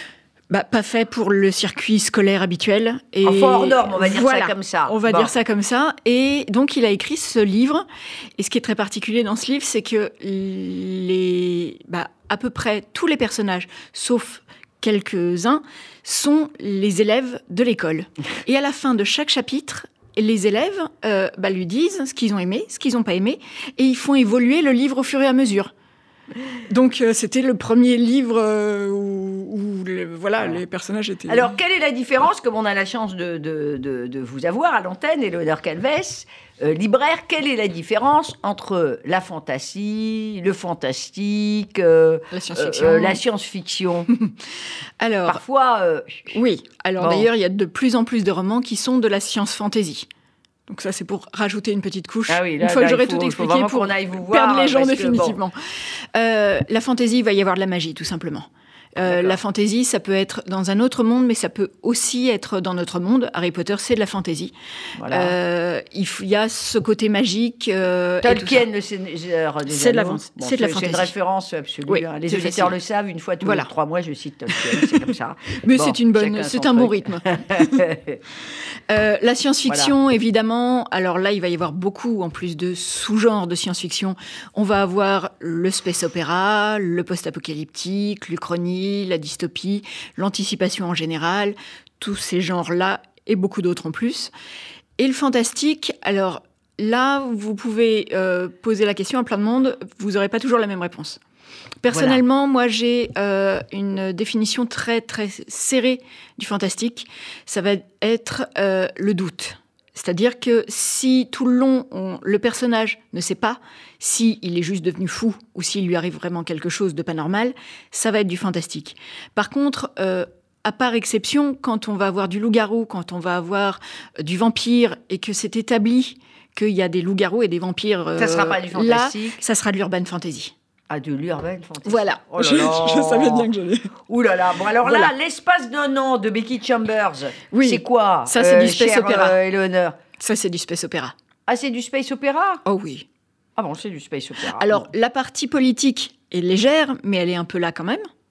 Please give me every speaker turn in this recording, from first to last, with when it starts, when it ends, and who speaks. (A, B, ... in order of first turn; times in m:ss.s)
0:00.5-0:07.8 A
0:03.2-0:05.3 B
0:08.4-0:25.7 A
0:26.7-0:31.6 A
0:31.3-0:44.1 B
0:42.3-0:43.2 A
0:45.0-0:45.4 A
0:45.2-0:46.4 B
0:46.3-0:50.1 A
0:47.0-0:47.3 B
0:50.7-1:08.6 A
0:52.3-0:55.4 B
0:59.0-0:59.4 B
1:05.0-1:05.3 B
1:08.2-1:18.2 B
1:09.7-1:11.1 A
1:11.9-1:12.7 A
1:13.4-1:13.7 A
1:14.5-1:15.0 A
1:15.5-1:17.8 A
1:18.9-1:34.3 A
1:19.7-1:19.9 B
1:35.0-1:41.2 A
1:41.8-2:10.5 A
1:41.9-1:42.2 B
2:08.2-2:09.4 B
2:10.9-2:13.5 B
2:11.8-2:13.9 A
2:14.1-2:20.0 B
2:14.8-2:15.1 A
2:17.5-2:19.4 A
2:20.2-2:21.1 A
2:21.5-2:22.6 B
2:22.6-2:23.0 A
2:23.6-2:24.9 B
2:24.5-2:28.0 A